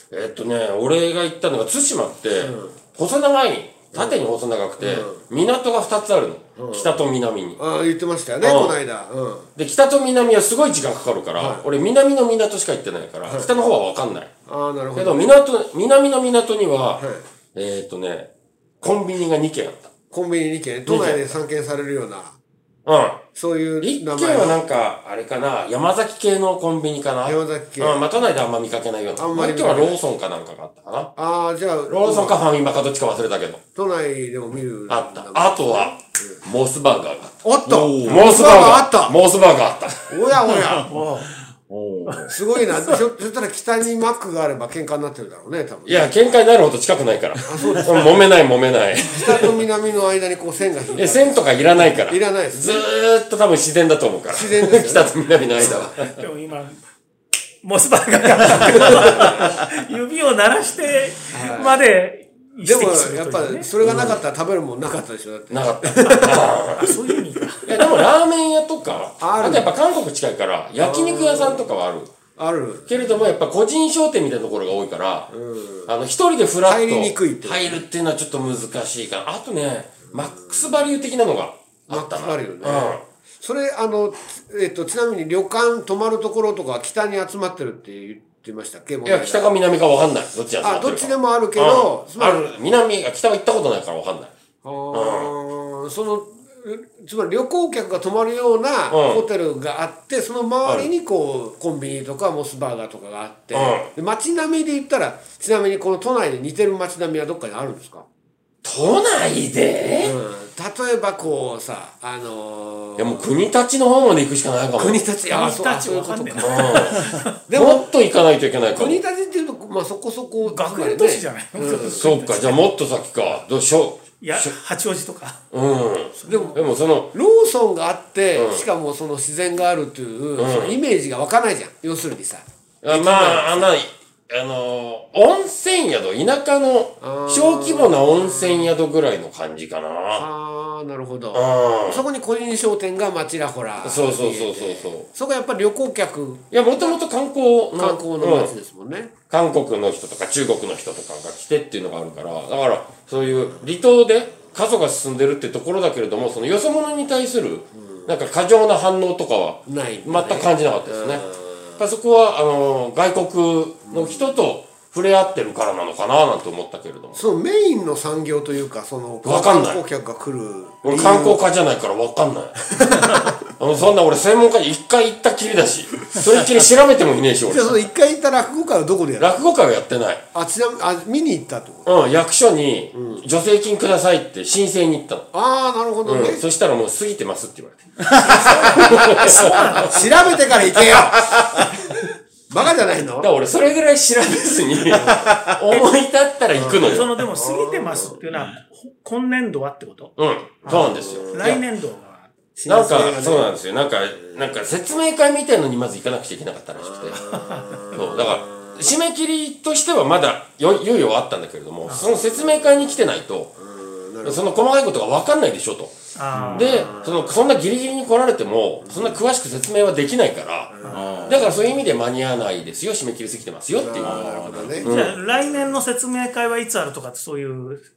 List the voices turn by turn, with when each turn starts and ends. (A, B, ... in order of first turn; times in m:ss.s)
0:00.1-0:07.6 A
0:02.4-0:02.8 B
0:04.8-0:05.2 B
0:06.6-0:07.0 B
0:07.6-0:09.5 B
0:08.4-0:08.8 A
0:09.6-0:14.3 A
0:11.4-0:11.6 B
0:14.5-0:15.3 B
0:14.9-0:18.3 A
0:17.0-0:17.2 B
0:18.8-0:19.9 A
0:20.1-0:22.4 B
0:20.8-0:21.3 A
0:22.8-0:23.2 A
0:23.3-0:24.6 B
0:23.8-0:31.1 A
0:27.2-0:28.0 B
0:29.2-0:30.0 B
0:31.2-0:32.4 B
0:31.9-0:33.6 A
0:33.8-0:36.4 B
0:34.9-0:37.4 A
0:37.4-0:39.2 B
0:37.7-0:38.5 C
0:38.0-0:40.1 A
0:40.1-0:40.9 B
0:40.8-0:41.3 D
0:41.7-0:42.4 C
0:42.0-0:43.0 D
0:42.3-0:46.1 B
0:45.8-0:49.6 A
0:47.4-0:48.2 B
0:49.0-0:52.9 B
0:50.9-0:56.2 A
0:54.3-0:55.9 B
0:56.0-0:56.8 D
0:57.6-1:03.7 D
0:59.1-0:59.4 B
1:01.3-1:01.9 B
1:02.6-1:06.6 B
1:03.8-1:04.2 A
1:05.5-1:06.9 A
1:06.0-1:07.8 D
1:07.6-1:12.1 A
1:09.2-1:09.7 B
1:10.8-1:11.7 B
1:12.4-1:13.3 B
1:12.9-1:15.3 A
1:15.3-1:15.9 B
1:15.8-1:23.0 A
1:16.6-1:17.8 B
1:21.9-1:29.5 B
1:29.0-1:34.3 A
1:30.6-1:32.4 B
1:34.6-1:48.0 B
1:34.9-1:35.3 A
1:38.9-1:39.2 A
1:40.6-1:40.9 A
1:43.5-1:43.9 A
1:48.6-1:50.2 A
1:50.0-1:53.3 B
1:53.0-1:55.0 A
1:54.8-1:57.9 B
1:55.3-1:57.3 D
1:56.4-1:59.0 A
1:58.7-2:02.1 B
2:00.4-2:02.6 D
2:01.6-2:04.5 A
2:04.2-2:05.4 D
2:05.5-2:07.1 A
2:06.2-2:06.6 D
2:06.2-2:06.6 B
2:07.1-2:13.7 B
2:08.3-2:08.6 A
2:10.4-2:10.8 A
2:12.8-2:20.3 A
2:17.0-2:18.7 B
2:20.1-2:27.0 B
2:21.3-2:22.0 A
2:23.8-2:25.1 A
2:26.5-2:28.5 A
2:27.7-2:29.1 B
2:29.3-2:47.2 A
2:37.8-2:38.1 B
2:39.7-2:41.8 B
2:43.9-2:44.4 B
2:47.1-2:51.4 B
2:49.2-2:49.8 A
2:50.8-2:57.8 A
2:52.7-2:53.4 B
2:57.4-2:59.4 B
2:59.2-3:00.2 A
3:00.3-3:01.9 B
3:01.8-3:05.3 A
3:02.9-3:03.2 B
3:05.3-3:06.4 B
3:06.0-3:10.0 A
3:08.2-3:11.8 B
3:08.4-3:10.0 D
3:10.8-3:11.1 A
3:12.5-3:13.3 B
3:13.2-3:17.2 A
3:15.1-3:15.5 C
3:16.5-3:18.2 B
3:16.8-3:22.3 D
3:20.2-3:21.6 A
3:20.6-3:21.6 B
3:22.6-3:23.6 B
3:22.7-3:27.3 A
3:26.9-3:28.9 B
3:27.3-3:27.9 D
3:27.9-3:33.6 A
3:32.0-3:32.8 B
3:33.6-3:34.5 B
3:34.2-3:36.0 A
3:36.1-3:36.9 D
3:36.3-3:36.9 C
3:36.5-3:45.2 A
3:36.6-3:37.3 B
3:38.8-3:39.2 B
3:40.7-3:41.5 B
3:40.8-3:41.2 D
3:40.9-3:41.5 C
3:43.7-3:44.9 B
3:44.0-3:44.8 C
3:44.8-3:47.8 D